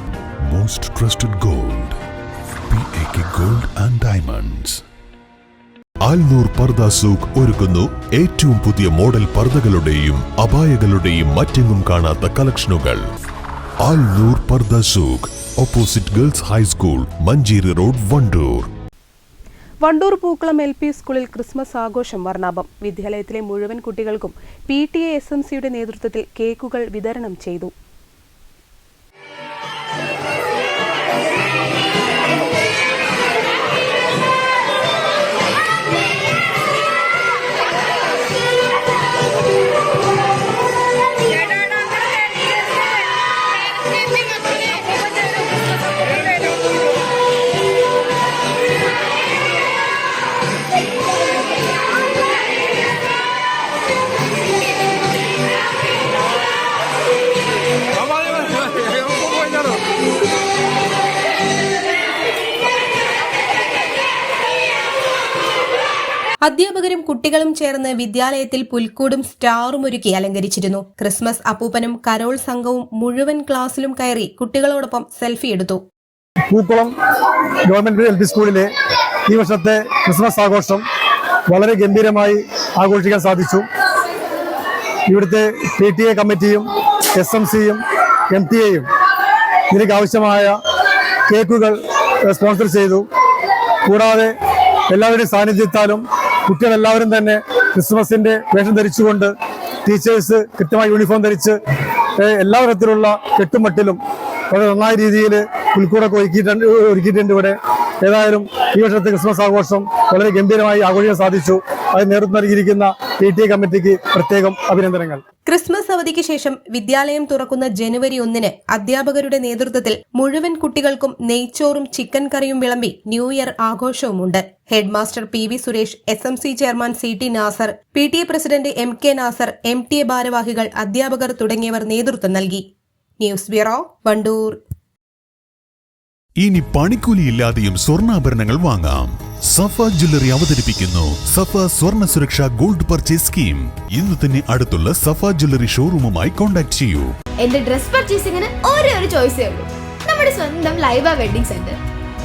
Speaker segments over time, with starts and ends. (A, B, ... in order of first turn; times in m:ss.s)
0:00.5-0:02.0 A
0:02.7-0:04.8 A
0:06.0-0:13.0 A
0:13.8-0:18.7 A
0:19.8-0:27.7 B
0:41.5-0:41.8 C
1:06.4-1:15.8 B
1:16.5-1:16.9 D
1:17.7-1:18.7 D
1:19.3-1:20.8 D
1:21.5-1:23.6 D
1:25.1-1:28.9 D
1:29.7-1:30.6 D
1:31.3-1:33.0 D
1:33.8-1:34.3 D
1:34.9-1:39.3 D
1:39.8-1:41.6 D
1:42.2-1:44.0 D
1:44.5-1:55.2 D
1:55.4-2:12.6 B
2:13.2-2:14.6 B
2:16.4-2:27.1 A
2:27.4-2:31.8 C